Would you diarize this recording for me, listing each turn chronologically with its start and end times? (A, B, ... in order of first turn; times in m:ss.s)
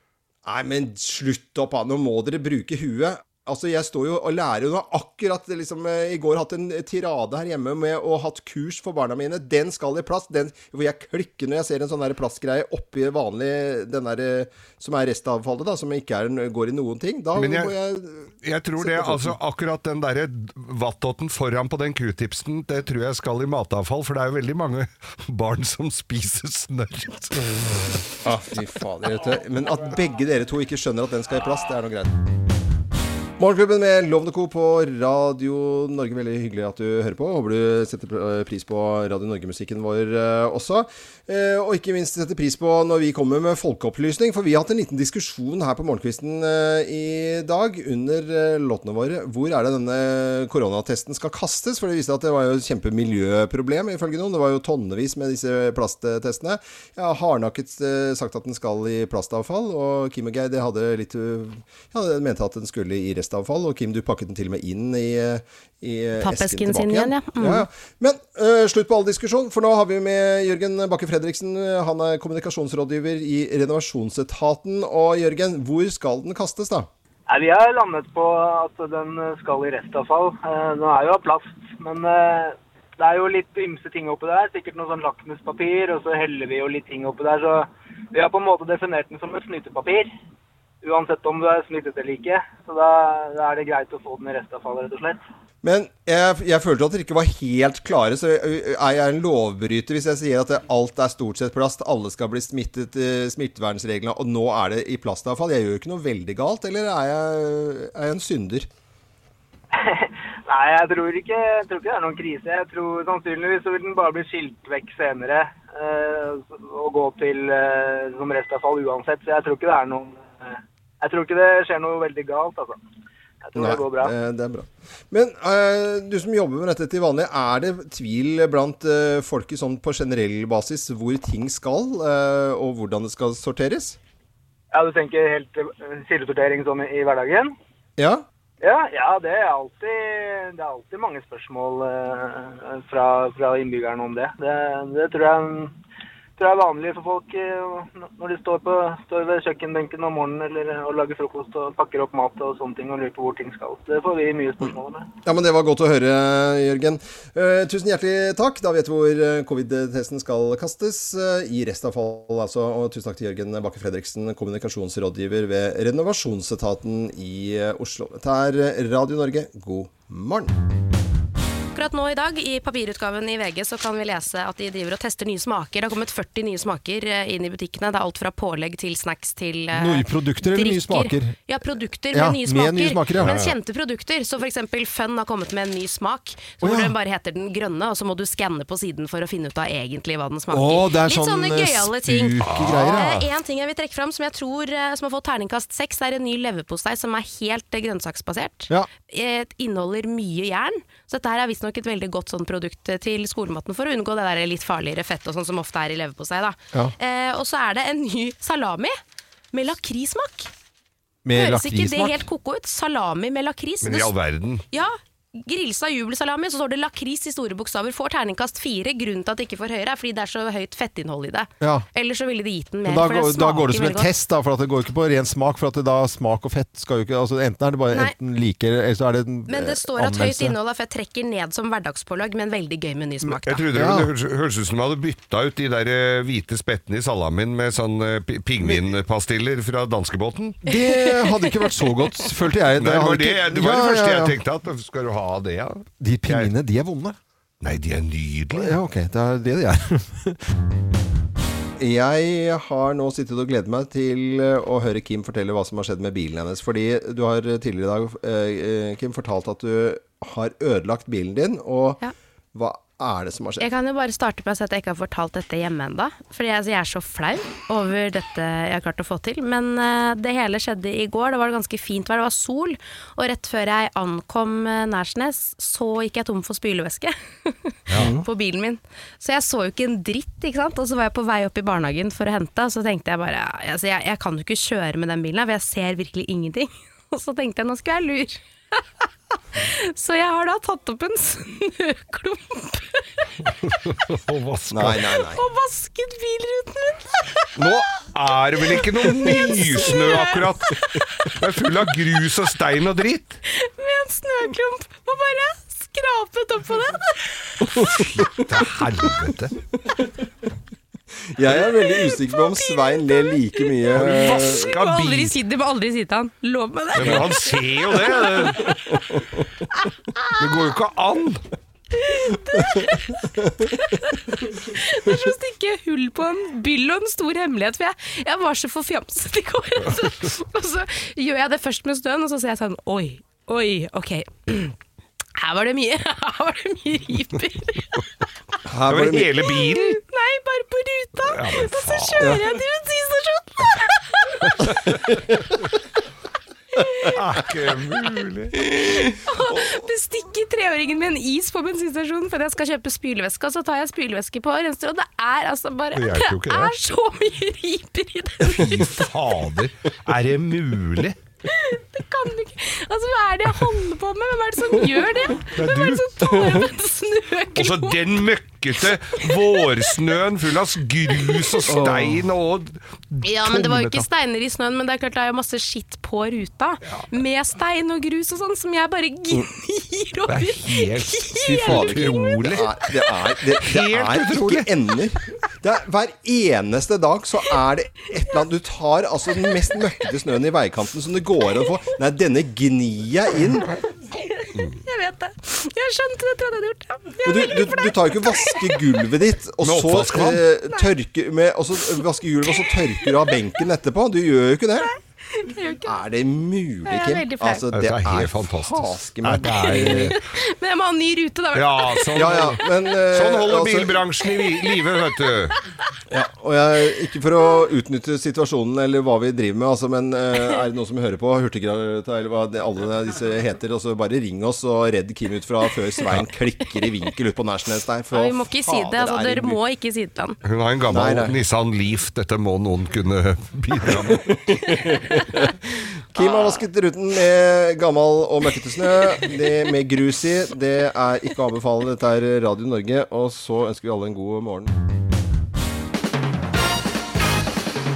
0:00.4-0:18.3 A
0:17.4-0:17.8 B
0:18.4-0:28.0 B
0:18.8-0:19.4 A
0:28.2-0:32.1 A
0:33.4-1:16.9 A
1:06.2-1:07.6 C
1:17.3-1:30.1 D
1:30.8-1:35.2 D
1:35.6-1:48.7 A
1:49.8-2:02.8 D
2:03.4-2:04.1 D
2:03.5-2:14.0 A
2:14.7-2:17.5 D
2:18.0-2:18.2 A
2:18.6-2:25.7 D
2:26.4-2:35.1 D
2:35.2-2:50.5 A
2:51.7-3:29.0 C
2:59.7-3:01.4 E
3:02.1-3:03.5 E
3:03.2-3:03.5 B
3:06.6-3:06.9 E
3:10.5-3:13.2 E
3:12.4-3:13.0 B
3:29.5-3:30.5 C
3:31.2-3:32.2 E
3:31.3-3:34.1 C
3:33.8-3:34.6 B
3:34.7-3:44.1 C
3:41.6-3:41.9 E
3:42.8-3:50.6 E
3:49.5-3:53.7 C
3:53.2-3:54.1 E
3:53.4-4:00.6 B
4:00.6-4:04.4 E
4:00.7-4:01.7 C
4:02.8-4:06.5 B
4:06.0-4:07.2 E
4:07.6-4:08.8 B
4:08.5-4:10.4 E
4:11.8-4:22.0 A
4:22.5-4:23.7 A
4:23.6-4:48.8 C
4:38.0-4:38.2 A
4:49.6-4:53.3 C
4:53.4-4:55.2 B
4:54.7-4:55.4 A
4:55.3-4:57.5 C
4:57.6-5:03.4 B
4:58.7-5:01.4 C
5:03.5-5:08.0 C
5:07.9-5:09.5 B
5:11.3-5:14.7 A
5:11.8-5:20.4 C
5:13.9-5:15.3 B
5:17.0-5:18.7 B
5:17.0-5:17.2 A
5:18.6-5:19.2 A
5:20.4-5:21.4 B
5:21.9-5:34.7 C
5:22.5-5:22.9 A
5:35.4-5:38.0 C
5:38.7-5:39.6 A
5:38.8-5:40.0 B
5:39.4-5:44.7 C
5:41.2-5:42.4 B
5:46.8-5:47.1 C
5:47.1-5:48.6 B
5:48.7-5:59.1 C
5:55.9-5:56.7 B
5:58.5-6:01.2 B
6:01.5-6:08.0 C
6:05.6-6:06.6 B
6:07.6-6:14.0 B
6:09.2-6:09.6 C
6:11.2-6:11.6 C
6:11.7-6:12.3 E
6:13.2-6:23.0 C
6:20.3-6:22.7 B
6:21.5-6:33.8 A
6:23.6-6:24.7 B
6:34.1-6:38.8 C
6:37.2-6:44.9 A
6:39.6-6:40.4 B
6:42.5-6:43.1 C
6:44.8-6:46.0 C
6:45.8-6:50.2 A
6:46.8-6:47.6 C
6:47.7-6:50.2 B
6:49.9-6:52.3 C
6:51.5-6:55.5 B
6:52.2-6:54.0 A
6:56.1-7:09.6 A
7:08.1-7:10.4 C
7:10.4-7:14.3 B
7:10.9-7:11.3 A
7:13.8-7:15.5 A
7:14.8-7:15.2 C
7:16.1-7:24.7 A
7:16.2-7:16.6 C